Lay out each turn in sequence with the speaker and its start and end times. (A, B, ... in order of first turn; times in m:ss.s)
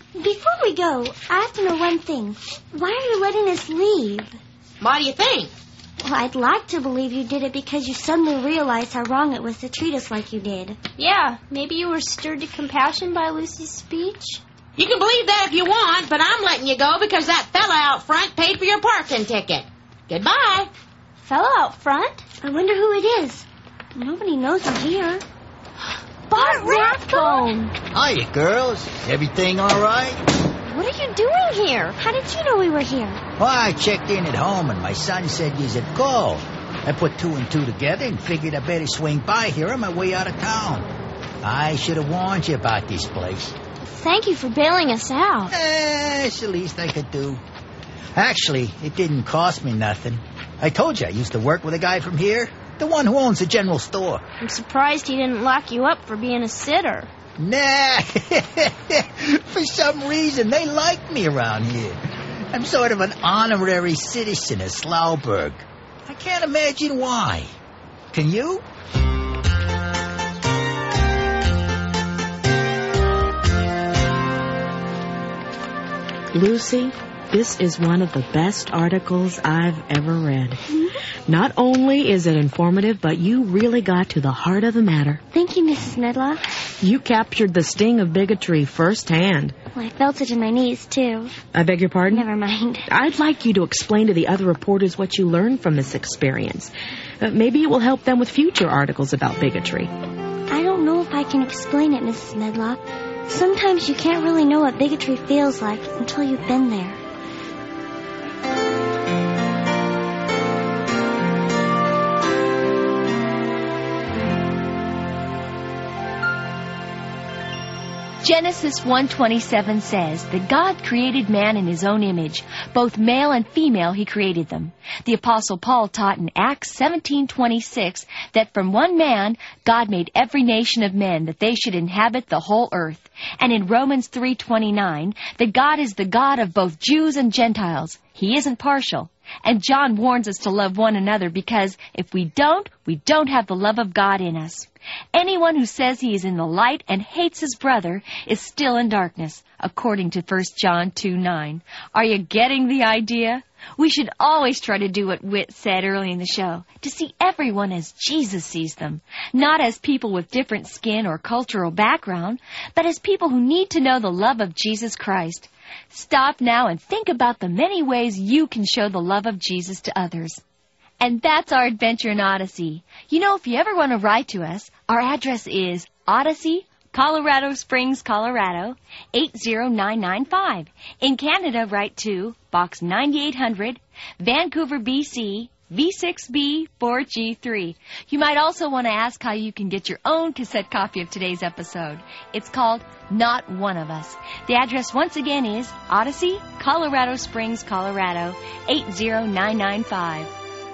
0:00.2-0:04.4 A
0:04.8-0:05.5 B
0:06.0-0:10.8 A
0:11.0-0:14.4 C
0:14.8-0:20.7 B
0:21.2-0:22.2 C
0:22.4-0:25.2 A
0:26.3-0:27.7 C
0:26.3-0:27.5 A
0:27.9-0:30.2 D
0:30.7-0:31.9 C
0:32.0-0:33.2 A
0:33.4-0:40.9 D
0:41.4-0:43.5 D
0:43.8-0:45.5 C
0:45.5-0:47.4 D
0:48.1-0:54.2 D
0:54.4-0:57.1 C
0:57.4-1:07.5 D
1:08.1-1:08.6 D
1:16.3-1:20.6 E
1:20.7-1:21.0 A
1:21.3-1:25.2 E
1:25.3-1:26.4 A
1:26.8-1:29.5 E
1:29.7-1:31.4 A
1:31.5-1:32.3 E
1:32.1-1:32.8 A
1:32.9-1:39.9 E
1:40.5-1:47.0 A
1:58.2-2:50.4 F
2:51.0-3:20.3 F